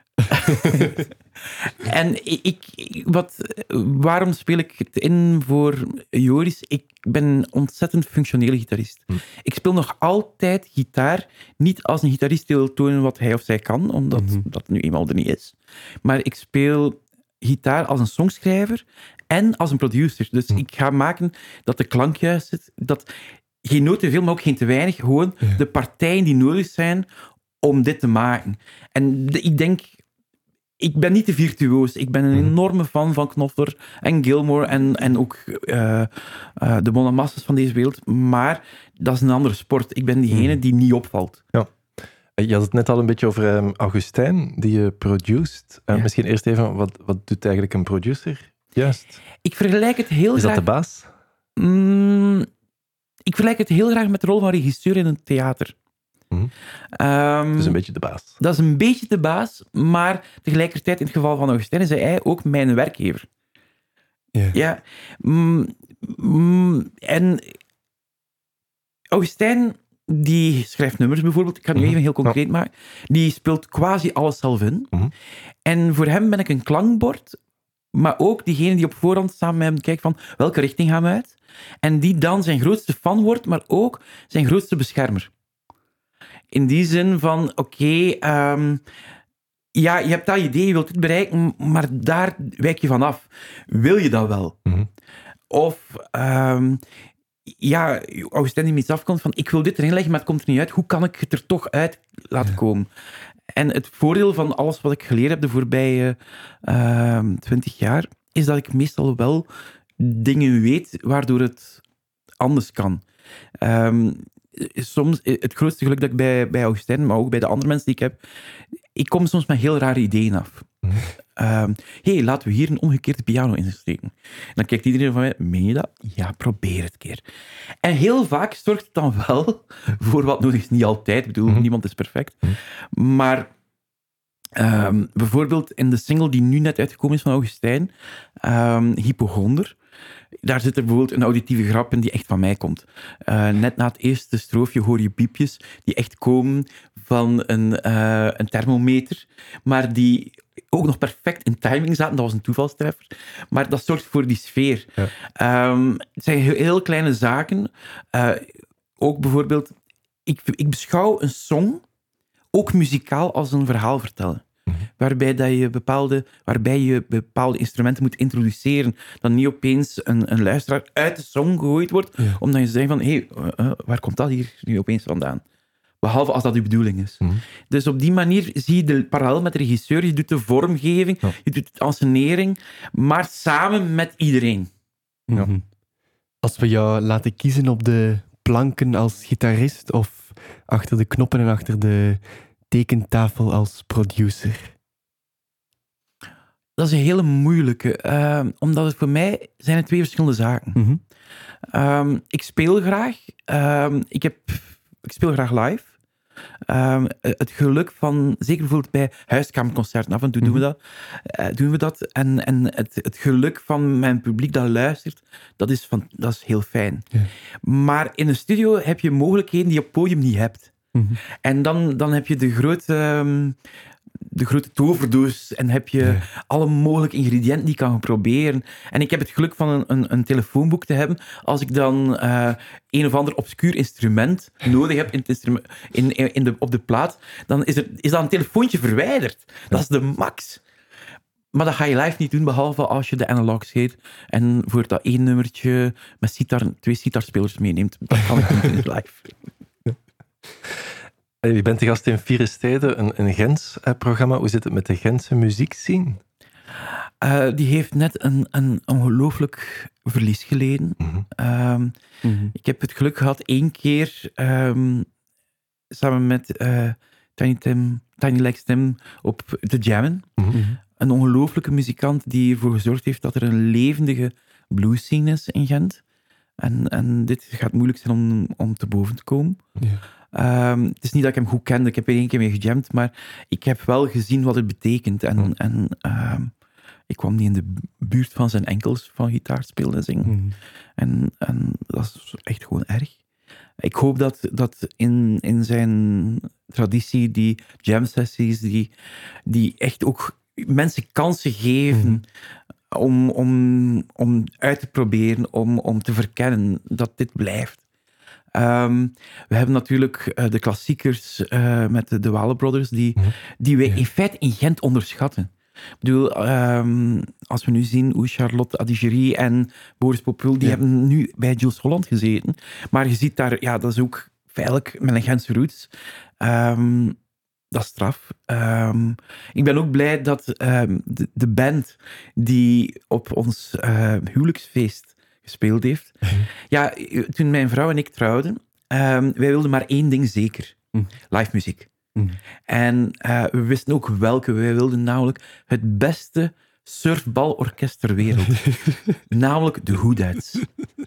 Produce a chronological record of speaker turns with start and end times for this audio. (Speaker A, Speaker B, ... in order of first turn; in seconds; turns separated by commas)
Speaker A: 0.3-23.1, Speaker B: 14.2-14.4, Speaker A: 23.6-27.1, Speaker A: 27.6-30.0, Speaker A: 30.8-41.4, Speaker C: 40.3-40.6, Speaker C: 42.4-49.2, Speaker A: 49.4-50.6, Speaker C: 50.4-51.1, Speaker A: 51.6-52.5, Speaker A: 53.3-55.7, Speaker A: 57.0-57.8, Speaker C: 57.6-58.4, Speaker A: 58.4-63.3, Speaker A: 64.5-67.6, Speaker A: 69.1-74.9, Speaker C: 71.8-72.3, Speaker A: 75.7-77.4, Speaker A: 77.9-85.3, Speaker A: 86.5-88.8, Speaker A: 89.7-94.6, Speaker A: 95.5-96.8, Speaker A: 97.5-102.9, Speaker A: 103.5-109.5, Speaker A: 110.0-111.8, Speaker A: 112.4-113.0, Speaker A: 113.6-118.2, Speaker A: 119.0-120.7, Speaker A: 121.4-127.2, Speaker A: 127.8-133.5, Speaker A: 134.6-139.8, Speaker A: 140.4-159.7, Speaker A: 160.3-161.8, Speaker A: 162.5-164.4, Speaker A: 165.0-175.4, Speaker A: 176.0-184.7, Speaker B: 185.3-185.7, Speaker B: 186.4-194.7, Speaker A: 196.8-200.8, Speaker B: 200.8-201.0, Speaker A: 201.7-205.9, Speaker A: 206.7-217.1, Speaker A: 217.6-220.7, Speaker B: 220.9-221.2, Speaker A: 221.3-223.6, Speaker A: 224.2-240.6, Speaker A: 241.5-249.3, Speaker C: 251.4-256.2, Speaker A: 257.2-261.9, Speaker C: 261.0-261.3, Speaker B: 262.2-262.5, Speaker A: 262.5-265.1, Speaker A: 265.9-270.4, Speaker B: 270.5-270.8, Speaker A: 271.0-276.0, Speaker A: 276.6-279.6, Speaker A: 280.3-286.5, Speaker A: 287.1-290.4, Speaker B: 290.3-290.6, Speaker A: 291.0-293.2, Speaker A: 293.8-298.9, Speaker A: 299.5-302.2, Speaker B: 301.9-302.2, Speaker A: 302.9-307.8, Speaker A: 308.5-315.5, Speaker A: 316.0-327.2, Speaker A: 327.7-340.8, Speaker A: 341.3-341.9, Speaker A: 342.7-350.7, Speaker B: 348.6-349.1